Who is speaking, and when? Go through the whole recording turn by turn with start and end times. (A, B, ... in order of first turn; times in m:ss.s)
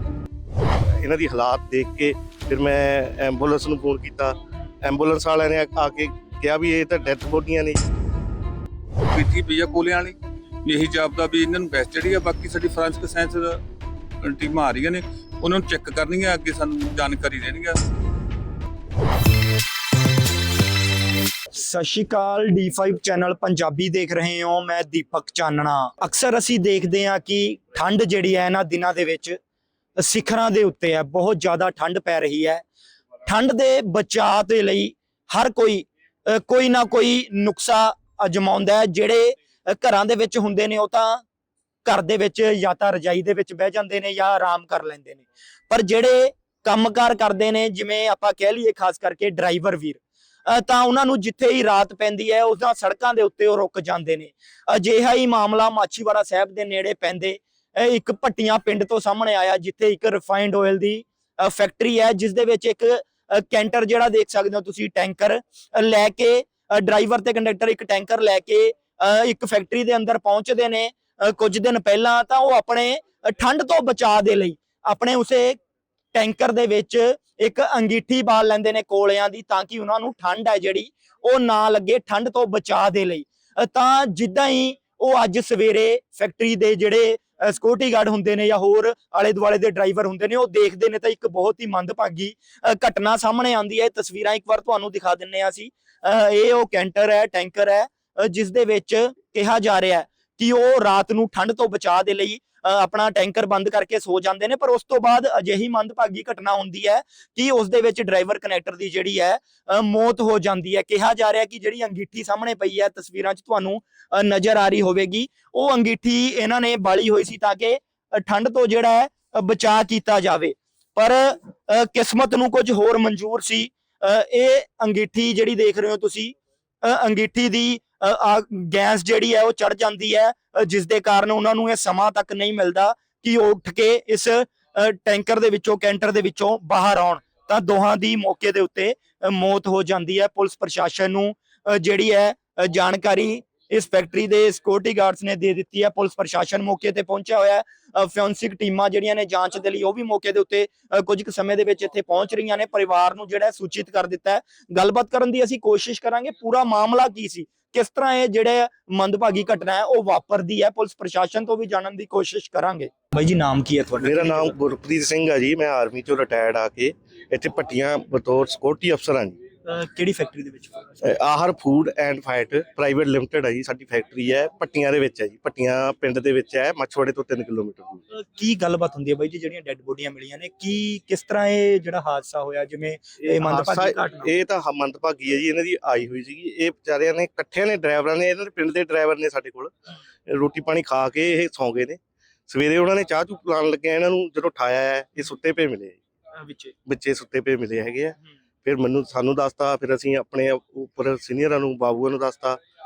0:01.0-0:07.8 A
0:09.1-0:13.6 B
0:14.2-0:17.8 B
0:21.5-0:29.4 C
0:30.0-0:32.6 C
0:33.2-0:41.2 C
0:41.8-1:15.6 C
1:16.1-2:44.5 C
2:44.0-2:49.4 A
2:49.7-2:51.0 C
2:51.0-2:58.0 A
2:58.1-3:04.3 C
3:03.3-3:09.7 A
3:10.3-3:16.0 A
3:16.4-3:16.7 C
3:16.8-3:22.6 A